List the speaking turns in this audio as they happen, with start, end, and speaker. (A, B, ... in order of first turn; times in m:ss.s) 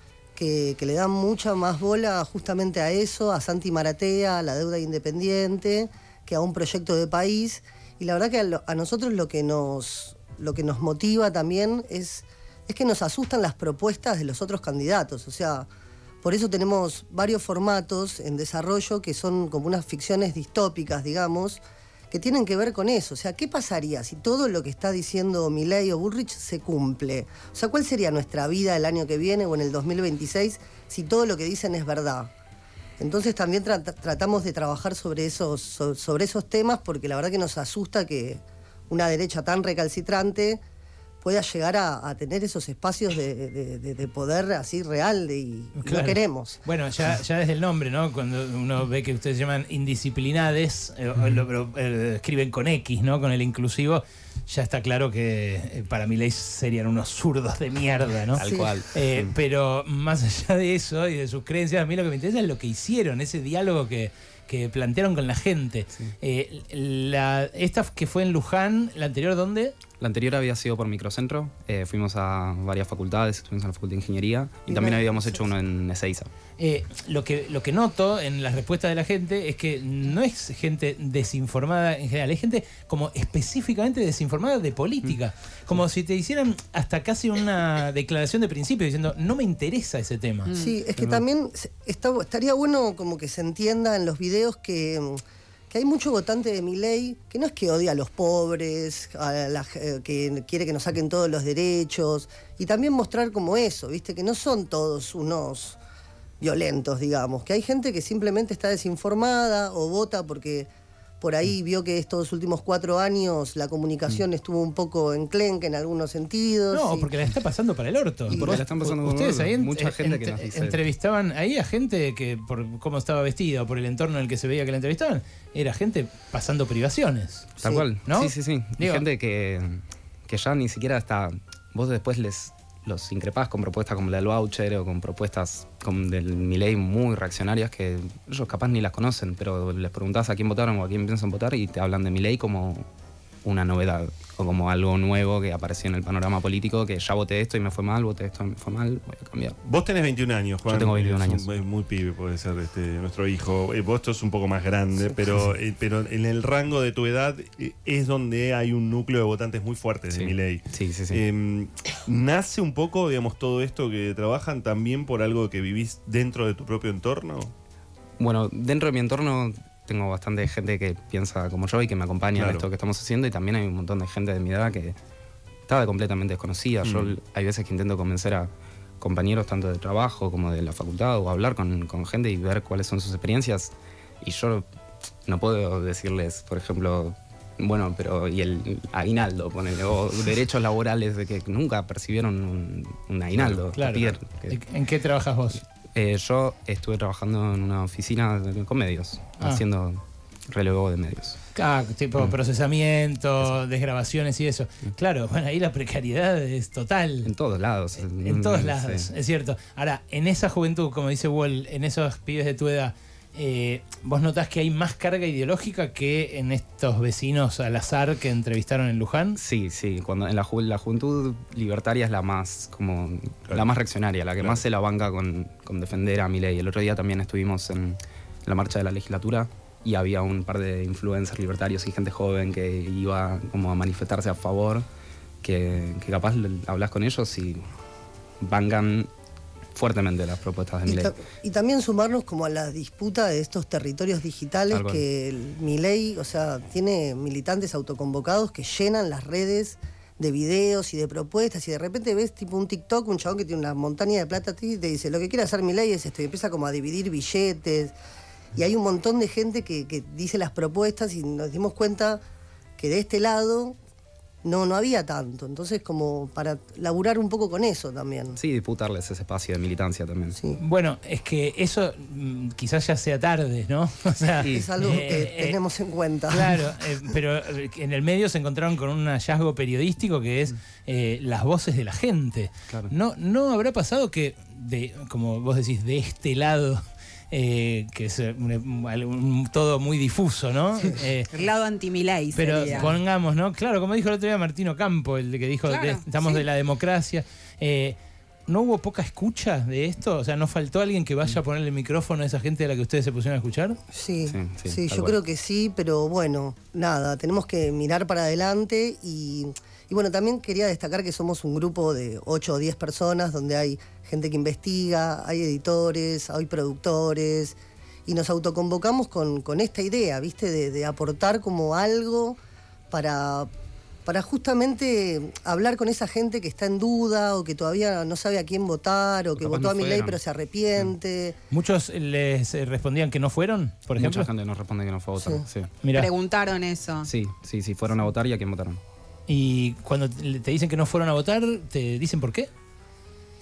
0:00.4-0:15.7 A
0:16.2-0:32.3 A
0:33.0-0:40.6 A
0:41.2-0:46.6 A
0:45.8-1:09.7 B
0:58.3-0:59.3 C
0:58.4-0:58.7 A
1:10.0-1:16.3 C
1:14.7-1:15.4 A
1:16.6-1:30.5 B
1:30.4-1:30.8 D
1:30.6-1:45.8 A
1:31.0-1:31.2 C
1:46.4-1:50.7 A
1:51.2-1:57.1 A
1:56.7-2:07.5 B
1:58.3-1:58.6 A
1:58.3-2:00.8 C
2:07.6-2:22.9 C
2:08.0-2:09.0 B
2:23.4-2:29.6 C
2:29.6-2:47.5 E
2:30.7-2:31.5 C
2:40.1-2:41.2 C
2:48.2-2:55.0 C
2:52.4-2:52.7 E
2:55.7-3:04.7 C
2:56.8-2:57.2 E
3:05.3-3:14.6 C
3:13.7-3:15.6 B
3:16.0-3:21.4 C
3:21.6-3:27.3 B
3:27.2-3:29.1 C
3:28.0-3:39.4 B
3:39.4-3:54.9 C
3:43.5-3:43.8 E
3:55.4-3:57.7 C
3:58.4-3:59.1 C
3:59.8-4:01.2 C
4:00.9-4:18.0 A
4:04.7-4:05.0 C
4:18.6-4:22.2 A
4:22.8-4:23.8 A
4:24.4-4:28.4 A
4:28.4-4:30.4 C
4:30.3-4:30.6 A
4:30.6-4:35.6 B
4:34.4-4:35.0 C
4:34.4-4:37.1 A
4:36.3-4:51.3 B
4:51.3-4:53.0 D
4:52.3-5:03.8 B
4:55.7-4:56.4 D
5:03.9-5:22.4 A
5:04.3-5:05.2 C
5:22.9-5:23.5 A
5:24.1-5:31.4 A
5:29.4-5:30.2 C
5:31.5-5:34.3 B
5:34.0-5:35.8 C
5:35.2-5:35.4 A
5:35.8-5:36.1 B
5:35.9-5:37.1 D
5:37.0-5:38.8 C
5:39.3-5:42.5 B